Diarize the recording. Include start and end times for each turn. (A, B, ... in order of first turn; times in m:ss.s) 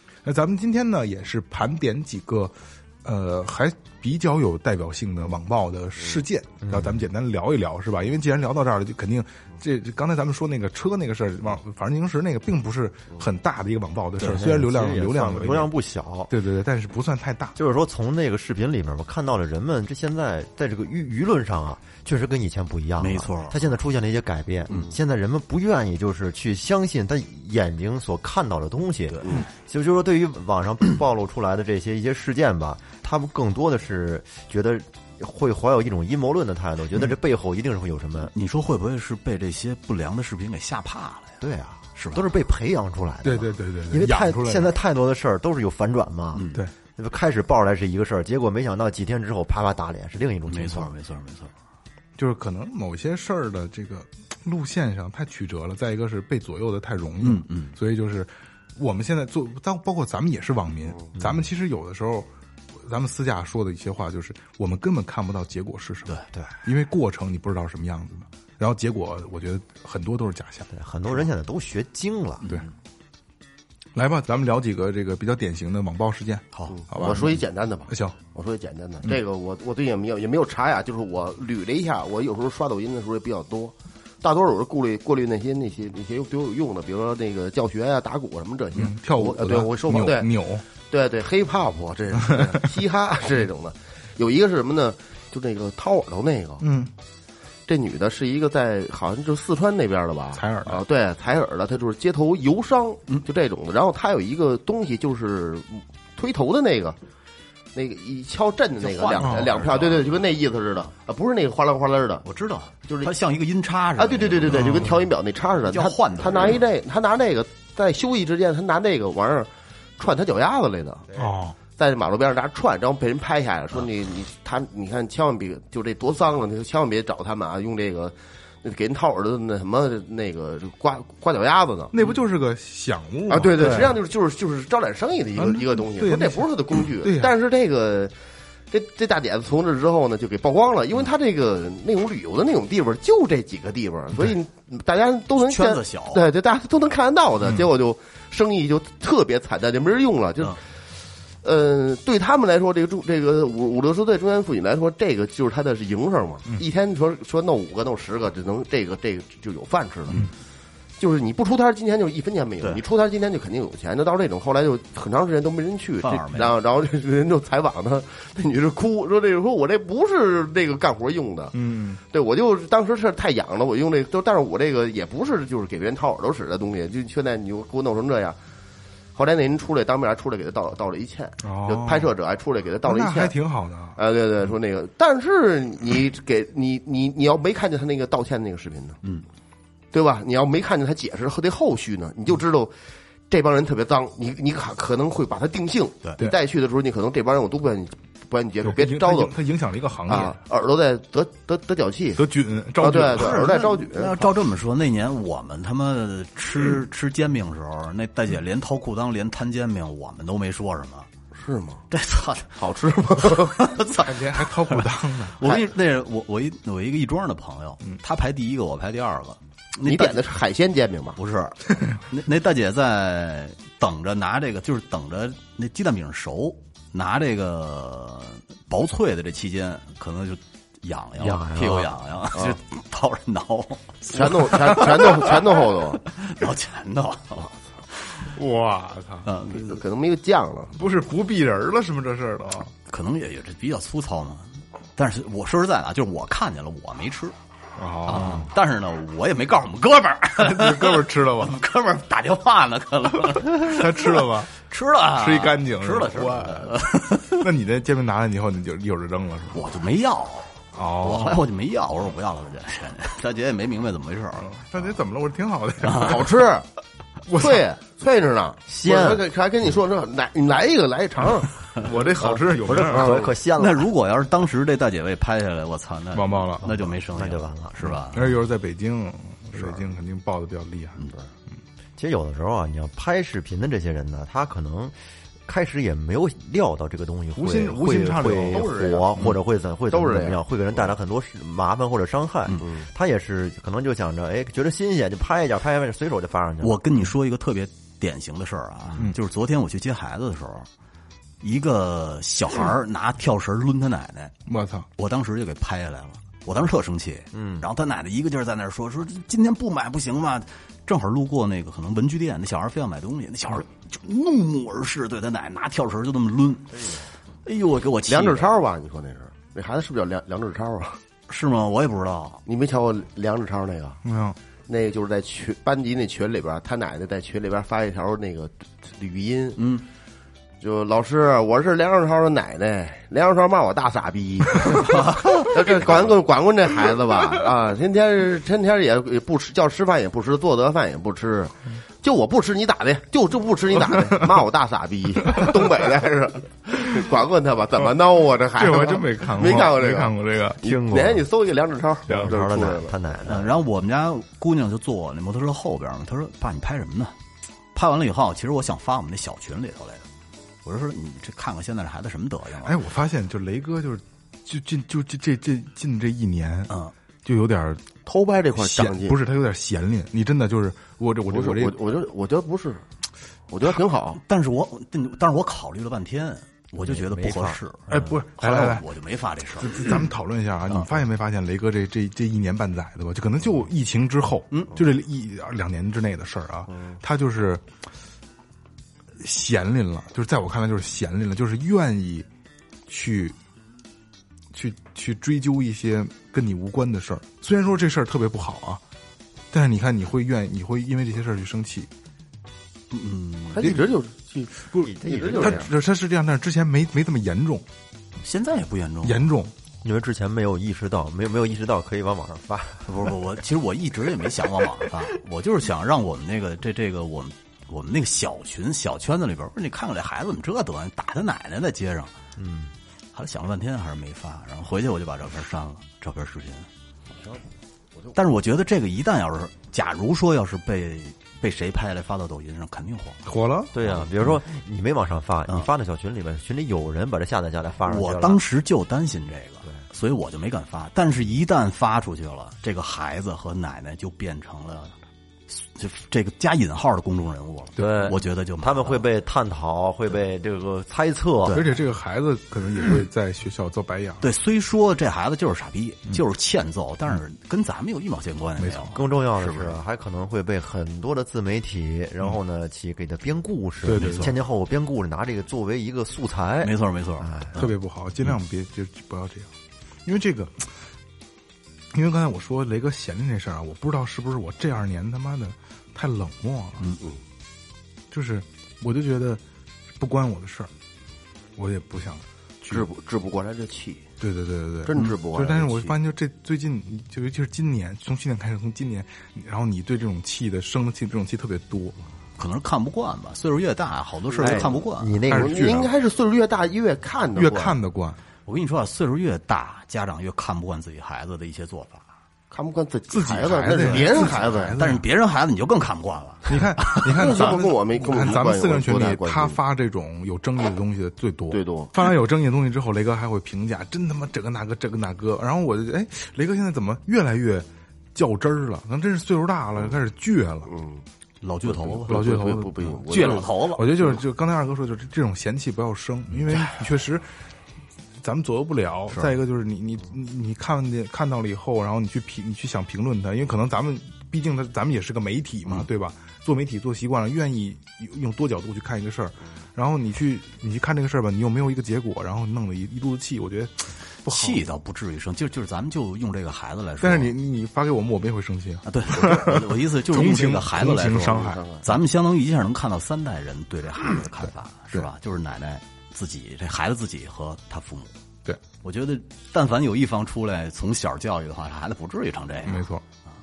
0:00.2-0:15.8 A
0:06.7-0:07.0 B
0:14.2-0:16.3 B
0:16.3-0:17.6 A
0:17.6-0:38.3 B
0:23.0-0:23.6 C
0:29.1-0:29.4 C
0:38.3-0:41.4 C
0:41.4-0:50.9 B
0:42.0-0:42.2 C
0:43.2-0:44.7 A
0:46.3-0:46.6 C
0:50.5-0:51.5 C
0:52.2-1:02.3 A
0:57.2-0:57.7 C
1:02.8-1:11.2 A
1:10.7-1:12.6 B
1:13.9-1:17.4 A
1:16.5-1:16.8 C
1:16.7-1:30.3 D
1:17.9-1:18.2 A
1:28.8-1:30.6 A
1:30.9-1:36.6 D
1:32.2-1:32.6 A
1:36.6-1:36.9 A
1:37.7-1:47.0 D
1:40.3-1:40.8 A
1:47.7-1:52.2 D
1:48.8-1:50.2 C
1:49.2-1:49.5 A
1:52.2-1:55.0 C
1:54.0-2:01.2 D
1:54.5-1:55.0 A
1:55.6-1:56.6 C
2:01.1-2:01.6 A
2:01.8-2:12.1 D
2:11.9-2:14.0 A
2:13.3-2:18.1 D
2:15.4-2:17.3 A
2:18.7-2:30.6 D
2:25.4-2:26.2 C
2:31.4-2:40.2 D
2:41.0-2:51.5 D
2:46.0-2:46.5 C
2:51.5-2:52.0 A
2:52.1-2:58.4 D
2:59.1-3:03.4 D
3:01.4-3:02.1 A
3:02.8-3:04.0 A
3:04.0-3:09.0 D
3:09.9-3:12.7 D
3:13.3-3:19.3 D
3:18.6-3:20.4 A
3:20.1-3:22.2 D
3:22.2-3:23.4 A
3:22.8-3:24.3 D
3:23.2-3:31.1 C
3:31.3-3:31.8 D
3:31.9-3:32.6 C
3:32.6-3:33.6 D
3:33.2-3:40.2 C
3:34.0-3:35.4 A
3:39.8-3:41.2 D
3:41.2-3:58.3 C
3:51.2-3:51.9 B
3:54.1-3:56.0 D
3:58.3-3:59.3 A
3:59.2-3:59.8 C
3:59.5-4:00.8 D
4:00.8-4:02.7 A
4:02.9-4:07.3 C
4:07.8-4:08.5 A
4:08.0-4:17.4 C
4:10.4-4:11.6 A
4:13.4-4:14.5 A
4:15.1-4:19.6 A
4:19.5-4:24.6 C
4:20.7-4:21.4 A
4:24.4-4:26.4 A
4:25.8-4:26.2 C
4:26.0-4:26.6 D
4:27.3-4:27.6 A
4:27.4-4:31.8 D
4:28.7-4:29.2 B
4:31.7-4:33.2 A
4:32.2-4:33.9 B
4:32.8-4:33.4 D
4:33.6-4:38.3 C
4:36.1-4:36.9 A
4:37.1-4:38.2 B
4:38.1-4:41.1 A
4:42.0-4:56.8 B
4:47.4-4:49.0 A
4:48.2-4:49.2 D
4:49.9-4:50.4 D
4:56.6-5:00.7 C
5:01.4-5:04.3 C
5:04.5-5:04.9 A
5:05.0-5:16.8 C
5:07.3-5:07.6 B
5:17.4-5:18.5 C
5:18.1-5:21.0 D
5:21.3-5:22.4 C
5:22.4-5:24.0 D
5:24.0-5:24.4 A
5:24.7-5:29.6 D
5:29.6-5:29.8 C
5:30.6-5:53.0 D
5:34.8-5:35.6 C
5:45.3-5:45.6 A
5:48.6-5:50.7 A
5:50.6-5:51.2 B
5:52.1-5:53.5 B
5:53.2-5:57.1 C
5:57.7-6:00.0 C
6:00.6-6:02.8 C
6:02.6-6:06.7 A
6:07.2-6:07.9 A
6:08.0-6:09.2 D
6:08.5-6:11.8 A
6:11.2-6:12.8 D
6:13.5-6:14.2 D
6:14.2-6:19.8 C
6:16.8-6:18.1 B
6:17.9-6:18.9 A
6:19.6-6:27.7 A
6:26.7-6:27.0 D
6:29.2-6:32.3 A
6:32.9-6:33.4 A
6:34.5-6:38.8 A
6:39.5-6:41.9 A
6:42.9-6:43.8 C
6:43.5-6:45.7 D
6:44.7-6:45.7 B
6:45.4-6:47.6 A
6:48.2-6:49.3 C
6:49.0-6:49.5 A
6:49.8-6:53.2 B
6:52.8-7:02.2 C
6:54.3-6:55.1 B
7:02.4-7:02.7 B
7:03.1-7:06.7 C
7:08.1-7:13.2 C
7:13.2-7:13.7 A
7:13.7-7:18.4 B
7:17.8-7:24.9 C
7:25.5-7:29.0 C
7:27.8-7:28.1 A
7:27.8-7:31.6 B
7:31.4-7:31.7 C
7:31.5-7:34.2 A
7:34.2-7:39.8 C
7:38.6-7:38.9 A
7:38.9-7:47.7 B
7:43.8-7:44.3 A
7:43.9-7:44.3 C
7:46.6-7:47.7 C
7:47.5-7:49.5 A
7:50.0-7:50.7 A
7:51.9-7:57.0 A
7:58.1-7:59.4 A
8:00.0-8:00.7 A
8:01.6-8:02.9 A
8:02.7-8:04.0 D
8:04.2-8:12.0 A
8:04.8-8:05.9 D
8:12.4-8:15.2 C
8:14.4-8:15.6 B
8:14.4-8:14.7 D
8:15.2-8:17.8 D
8:15.3-8:15.9 A
8:17.4-8:18.2 A
8:18.4-8:22.1 C
8:22.5-8:24.8 D
8:23.1-8:25.0 A
8:23.8-8:27.3 C
8:26.5-8:40.7 A
8:27.0-8:29.6 D
8:31.5-8:31.9 D
8:40.7-8:41.0 D
8:41.4-8:42.3 C
8:41.8-8:44.2 D
8:42.0-8:47.3 A
8:43.1-8:43.9 C
8:48.2-9:04.6 A
9:04.2-9:07.3 C
9:07.0-9:11.6 A
9:08.8-9:18.1 C
9:10.9-9:11.8 D
9:18.8-9:22.9 C
9:22.6-9:23.0 A